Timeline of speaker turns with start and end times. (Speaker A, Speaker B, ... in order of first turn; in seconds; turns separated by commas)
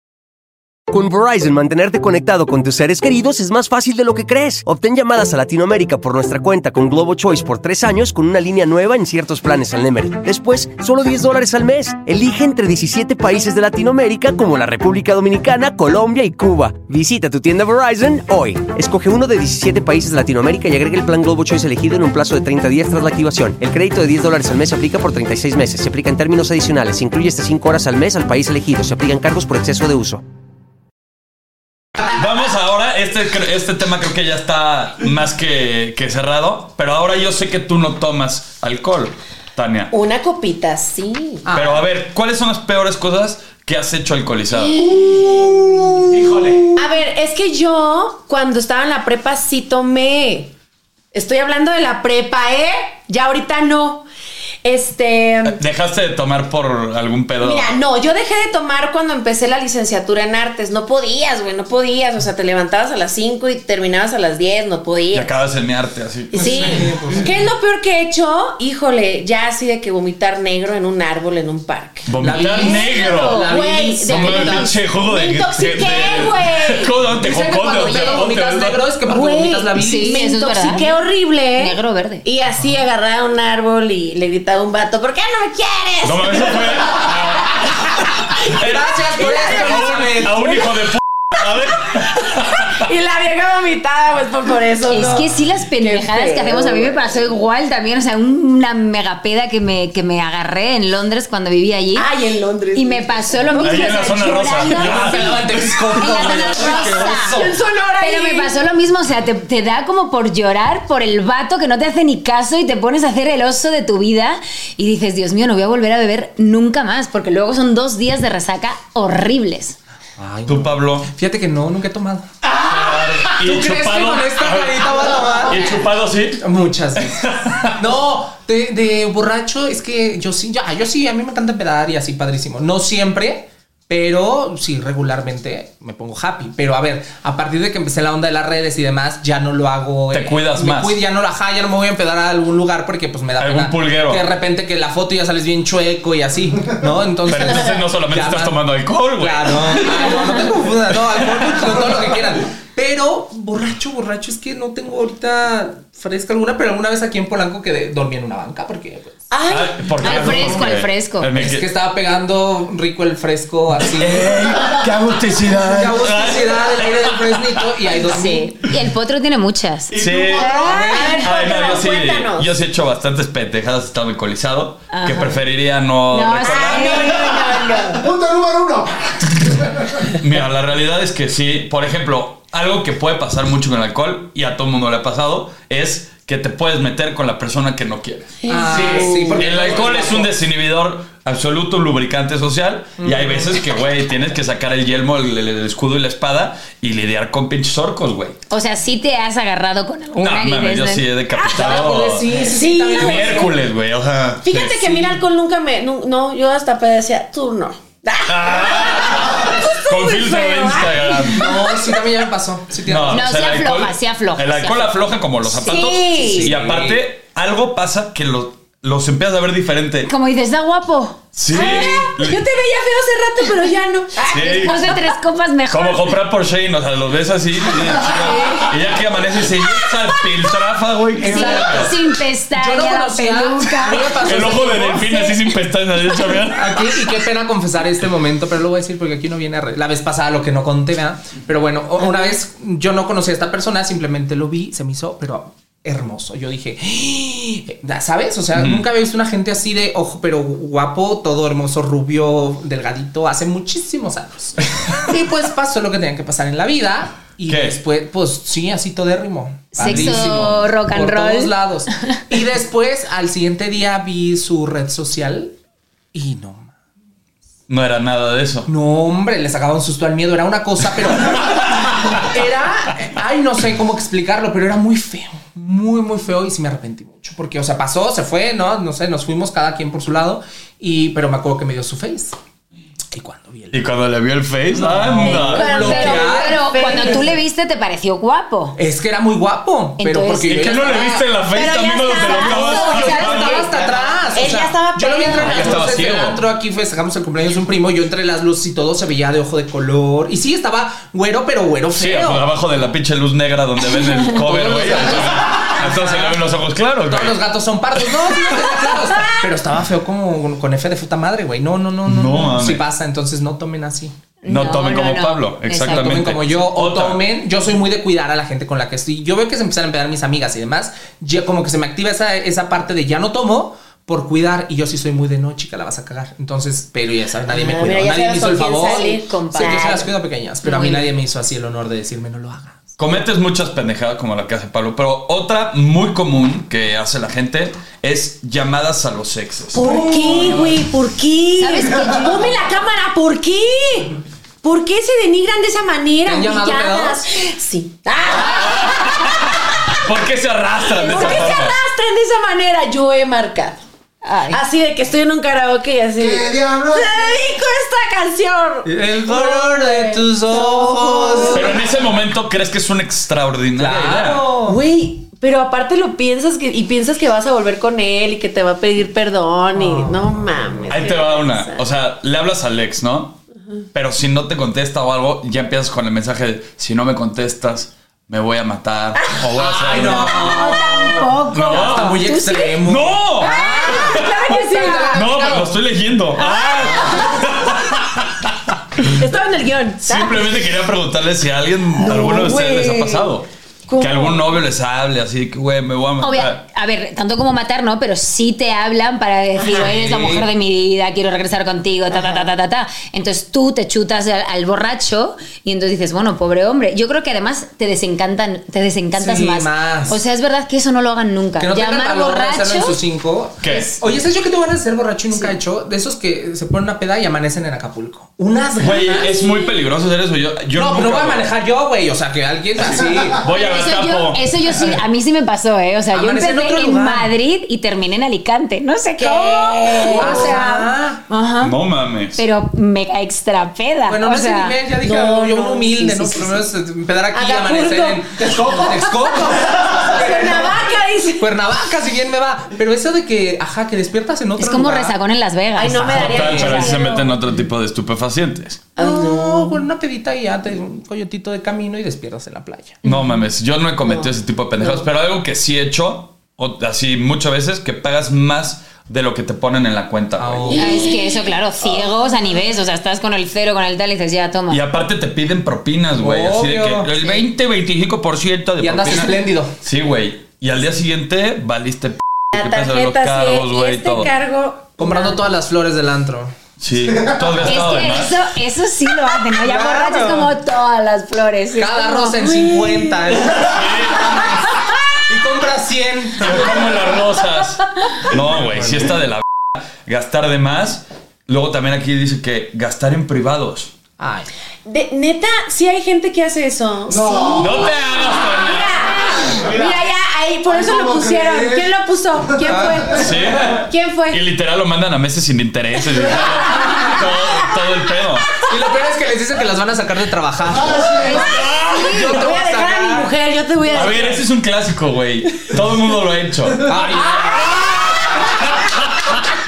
Speaker A: 0.9-30.2, Speaker B: 32.0-39.9, Speaker C: 39.9-41.5, Speaker D: 41.4-41.8, Speaker B: 41.5-44.8, Speaker C: 44.6-46.0, Speaker E: 46.1-46.7, Speaker C: 46.7-50.5, Speaker C: 51.1-54.0, Speaker C: 54.6-55.6, Speaker B: 55.4-57.8, Speaker C: 57.4-65.3, Speaker B: 65.1-66.8, Speaker D: 66.3-67.4, Speaker C: 66.4-76.9, Speaker B: 72.1-73.5, Speaker D: 72.2-74.7, Speaker B: 74.1-78.9, Speaker D: 77.1-80.9, Speaker C: 77.9-78.2, Speaker C: 79.1-87.1, Speaker F: 79.8-80.9, Speaker F: 81.6-82.2, Speaker B: 86.0-87.8, Speaker D: 88.5-90.7, Speaker B: 88.6-92.8, Speaker C: 89.7-89.9, Speaker C: 92.6-97.0, Speaker F: 94.9-102.1, Speaker C: 102.0-104.6, Speaker F: 102.7-105.4, Speaker B: 103.6-107.1, Speaker D: 104.6-107.5, Speaker F: 105.9-107.4, Speaker C: 107.0-108.5, Speaker F: 108.0-119.8, Speaker D: 120.2-122.3, Speaker B: 120.5-121.1, Speaker B: 122.7-126.4, Speaker D: 123.3-125.8, Speaker D: 126.4-127.2, Speaker B: 127.0-127.8, Speaker D: 127.8-148.6, Speaker B: 140.1-141.0, Speaker B: 143.4-144.2, Speaker B: 147.3-150.2, Speaker C: 147.4-147.7, Speaker D: 149.2-159.2, Speaker B: 151.1-151.7, Speaker C: 159.3-160.7, Speaker B: 159.5-161.7, Speaker F: 160.0-161.3, Speaker D: 161.3-164.4, Speaker B: 164.0-167.6, Speaker D: 165.6-168.5, Speaker F: 168.1-169.9, Speaker B: 169.9-177.4, Speaker E: 169.9-170.7, Speaker C: 170.3-172.5, Speaker D: 170.4-171.3, Speaker F: 170.9-171.2, Speaker F: 174.9-175.3, Speaker F: 176.1-177.6, Speaker C: 176.4-178.2, Speaker E: 177.8-179.9, Speaker B: 180.1-188.4, Speaker C: 188.4-189.8, Speaker D: 188.5-190.3, Speaker E: 188.6-189.3, Speaker B: 189.3-198.4, Speaker D: 193.0-193.6, Speaker F: 198.5-201.0, Speaker B: 200.2-202.3, Speaker D: 201.4-203.6, Speaker C: 202.3-203.5, Speaker B: 202.9-205.2, Speaker C: 204.4-212.0, Speaker B: 208.3-211.4, Speaker D: 211.2-213.3, Speaker B: 212.8-220.1, Speaker F: 213.1-214.9, Speaker C: 215.5-216.5, Speaker D: 216.2-217.0, Speaker F: 220.1-221.2, Speaker B: 221.3-222.4, Speaker C: 221.5-225.0, Speaker D: 221.5-222.1, Speaker B: 224.3-224.8, Speaker F: 224.3-226.1, Speaker B: 225.7-231.9, Speaker F: 228.2-228.7, Speaker C: 228.3-228.6, Speaker D: 231.2-231.9, Speaker F: 231.2-235.4, Speaker D: 232.5-235.2, Speaker B: 234.2-237.0, Speaker D: 236.5-265.5, Speaker B: 248.5-248.8, Speaker B: 257.5-257.8, Speaker F: 259.7-261.5, Speaker B: 259.8-260.6, Speaker D: 266.1-266.7, Speaker B: 267.7-268.7, Speaker D: 268.7-282.4, Speaker D: 283.1-283.8, Speaker B: 283.7-285.8, Speaker D: 284.7-287.1, Speaker C: 285.2-287.3, Speaker F: 285.5-288.8, Speaker D: 288.8-291.1, Speaker F: 290.0-291.0, Speaker B: 290.5-293.8, Speaker C: 291.5-293.6, Speaker F: 292.1-293.7, Speaker D: 292.5-302.5, Speaker C: 294.3-296.1, Speaker B: 295.3-296.4, Speaker B: 301.9-307.4, Speaker D: 304.2-306.5, Speaker D: 307.0-314.1, Speaker B: 308.0-308.6, Speaker B: 312.1-312.9, Speaker F: 314.4-316.2, Speaker B: 314.5-317.2, Speaker D: 315.8-332.9, Speaker C: 327.5-330.1, Speaker F: 328.8-330.1, Speaker F: 330.6-331.1, Speaker B: 333.0-339.9, Speaker C: 339.7-350.0, Speaker E: 339.8-340.6, Speaker D: 339.9-340.6, Speaker F: 341.6-342.5, Speaker D: 346.2-347.2, Speaker B: 348.4-351.8, Speaker C: 350.9-353.8, Speaker F: 354.2-354.6, Speaker C: 354.5-361.9, Speaker E: 356.2-357.4, Speaker D: 358.8-361.8, Speaker B: 361.5-364.4, Speaker D: 363.8-364.8, Speaker C: 364.6-371.8, Speaker D: 369.7-370.2, Speaker B: 370.9-373.4, Speaker B: 373.9-380.8, Speaker D: 379.6-385.7, Speaker F: 380.0-382.2, Speaker B: 381.5-382.2, Speaker C: 382.2-382.8, Speaker B: 382.8-384.4, Speaker C: 383.4-385.5, Speaker B: 385.1-389.1, Speaker C: 386.4-387.7, Speaker C: 389.0-390.4, Speaker B: 390.0-393.4, Speaker C: 392.0-393.3, Speaker C: 393.9-394.6, Speaker B: 394.0-396.6, Speaker F: 396.2-413.0, Speaker D: 399.7-400.5, Speaker D: 409.1-410.2, Speaker D: 411.6-419.4, Speaker B: 413.6-414.0, Speaker B: 418.8-421.5, Speaker D: 420.7-423.4, Speaker B: 422.8-424.4, Speaker E: 423.0-423.3, Speaker F: 423.4-431.7, Speaker D: 426.1-427.3, Speaker C: 429.2-430.6, Speaker D: 430.1-431.2, Speaker B: 431.6-432.4, Speaker F: 432.3-434.7, Speaker D: 434.1-445.2, Speaker C: 435.0-436.6, Speaker C: 437.3-439.4, Speaker E: 438.4-440.5, Speaker C: 440.1-441.5, Speaker F: 444.6-447.0, Speaker C: 445.8-447.4, Speaker D: 446.1-446.9, Speaker B: 446.1-448.9, Speaker C: 448.9-449.8, Speaker D: 449.0-453.0, Speaker B: 453.0-460.8, Speaker C: 454.0-455.0, Speaker D: 460.4-461.1, Speaker C: 460.7-461.2, Speaker F: 460.7-464.8, Speaker B: 464.7-474.3, Speaker D: 466.2-467.4, Speaker D: 468.8-469.8, Speaker C: 472.5-475.3, Speaker D: 475.0-476.5, Speaker B: 476.8-478.3, Speaker F: 477.6-482.5, Speaker D: 479.6-480.5, Speaker D: 481.8-484.6, Speaker C: 482.7-483.1, Speaker B: 483.5-484.6, Speaker D: 485.3-486.9, Speaker B: 486.4-493.9, Speaker D: 488.2-489.2, Speaker D: 494.2-494.5, Speaker C: 494.9-504.4, Speaker E: 497.1-497.9, Speaker B: 497.6-499.2, Speaker E: 499.4-500.0, Speaker E: 500.6-501.9, Speaker D: 502.7-503.1, Speaker E: 502.7-503.5, Speaker B: 503.1-508.6, Speaker C: 506.3-507.7, Speaker D: 508.6-511.4, Speaker E: 510.7-511.6, Speaker F: 511.1-512.4, Speaker B: 511.4-512.4, Speaker D: 511.9-513.3, Speaker C: 512.3-514.4, Speaker B: 513.9-519.4, Speaker D: 516.8-518.0